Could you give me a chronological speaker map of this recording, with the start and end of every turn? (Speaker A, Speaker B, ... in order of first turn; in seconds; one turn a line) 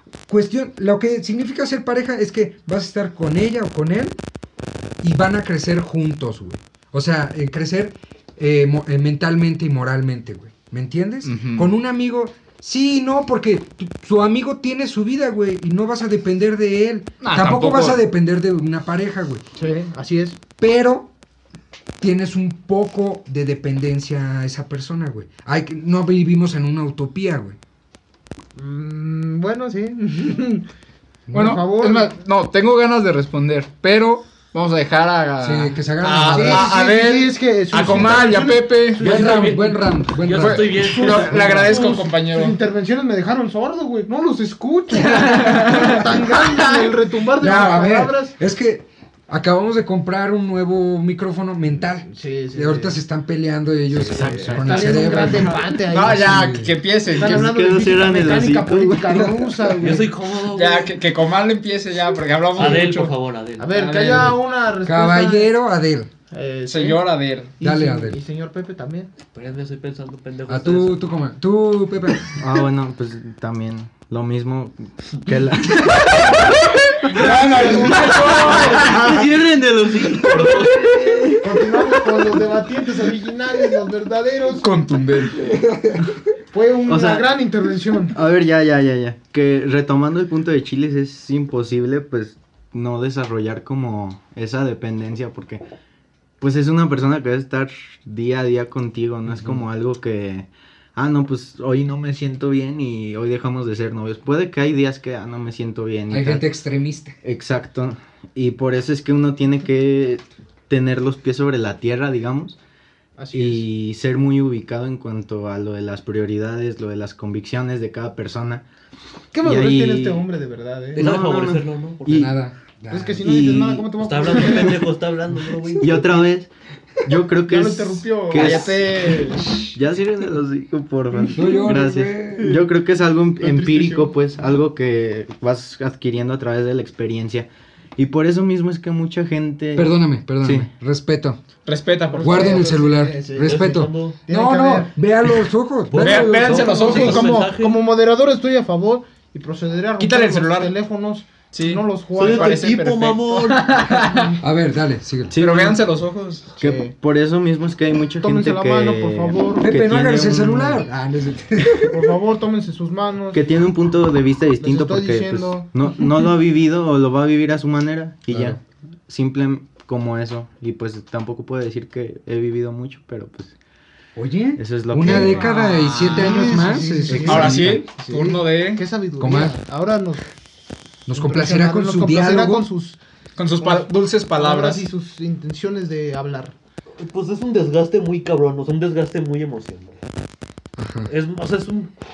Speaker A: 0.3-4.2
Speaker A: 5.0-19.4
Speaker B: 11.2-11.7
Speaker B: 17.2-18.0
Speaker C: 19.6-20.4
Speaker A: 20.6-21.1
Speaker A: 22.0-27.6
Speaker C: 28.6-30.7
Speaker A: 31.3-31.6
Speaker C: 31.3-32.1
Speaker B: 31.3-39.2
Speaker A: 35.4-36.7
Speaker C: 36.3-39.6
Speaker A: 39.0-41.4
Speaker D: 39.0-41.9
Speaker B: 40.3-42.6
Speaker C: 40.8-48.3
Speaker B: 44.9-46.9
Speaker A: 47.4-56.8
Speaker C: 52.1-53.0
Speaker E: 53.9-55.0
Speaker B: 54.4-57.5
Speaker C: 54.5-56.6
Speaker C: 57.1-60.1
Speaker E: 57.1-59.5
Speaker D: 59.8-61.0
Speaker B: 60.5-63.1
Speaker D: 62.5-64.0
Speaker C: 62.6-62.8
Speaker C: 63.6-65.5
Speaker B: 63.7-64.3
Speaker A: 64.8-66.1
Speaker C: 66.3-67.0
Speaker B: 66.7-67.5
Speaker C: 67.6-69.1
Speaker A: 67.6-68.2
Speaker D: 69.3-71.0
Speaker A: 70.5-72.4
Speaker E: 72.4-76.3
Speaker B: 75.8-79.1
Speaker C: 77.1-78.9
Speaker D: 77.2-81.5
Speaker E: 78.7-81.4
Speaker C: 81.4-84.7
Speaker B: 84.6-85.5
Speaker A: 85.4-86.1
Speaker C: 86.5-88.1
Speaker E: 86.9-87.3
Speaker E: 88.1-95.6
Speaker E: 96.4-106.4
Speaker A: 106.1-107.2
Speaker E: 107.2-112.6
Speaker C: 113.2-113.6
Speaker E: 113.3-118.6
Speaker C: 119.3-121.0
Speaker E: 119.4-120.2
Speaker E: 120.9-122.3
Speaker D: 121.0-122.3
Speaker A: 122.1-123.2
Speaker C: 122.9-124.9
Speaker E: 123.2-124.8
Speaker D: 124.0-126.3
Speaker E: 125.8-126.5
Speaker E: 127.0-140.7
Speaker C: 127.5-128.8
Speaker B: 128.3-129.7
Speaker A: 131.3-132.6
Speaker C: 131.4-131.8
Speaker C: 133.4-134.1
Speaker A: 139.8-141.4
Speaker B: 141.7-142.7
Speaker C: 142.1-144.9
Speaker A: 142.2-146.6
Speaker D: 143.4-144.2
Speaker D: 145.9-147.8
Speaker B: 145.9-147.4
Speaker C: 146.4-152.6
Speaker B: 150.0-150.7
Speaker B: 151.5-154.4
Speaker D: 152.2-153.9
Speaker C: 154.1-154.4
Speaker A: 154.4-155.4
Speaker E: 155.3-155.8
Speaker B: 155.3-156.6
Speaker E: 156.6-160.8
Speaker C: 156.6-156.9
Speaker C: 158.2-159.8
Speaker A: 159.6-162.1
Speaker C: 161.8-163.5
Speaker E: 163.3-173.5
Speaker C: 164.6-165.7
Speaker A: 168.3-168.6
Speaker A: 174.2-177.9
Speaker E: 174.6-175.5
Speaker C: 175.0-180.2
Speaker B: 175.2-176.7
Speaker E: 177.1-177.7
Speaker B: 177.2-178.8
Speaker A: 179.2-179.6
Speaker A: 181.1-182.7
Speaker C: 181.1-183.0
Speaker B: 183.4-184.8
Speaker C: 183.6-186.5
Speaker D: 187.0-190.0
Speaker A: 190.8-191.1
Speaker D: 191.1-191.9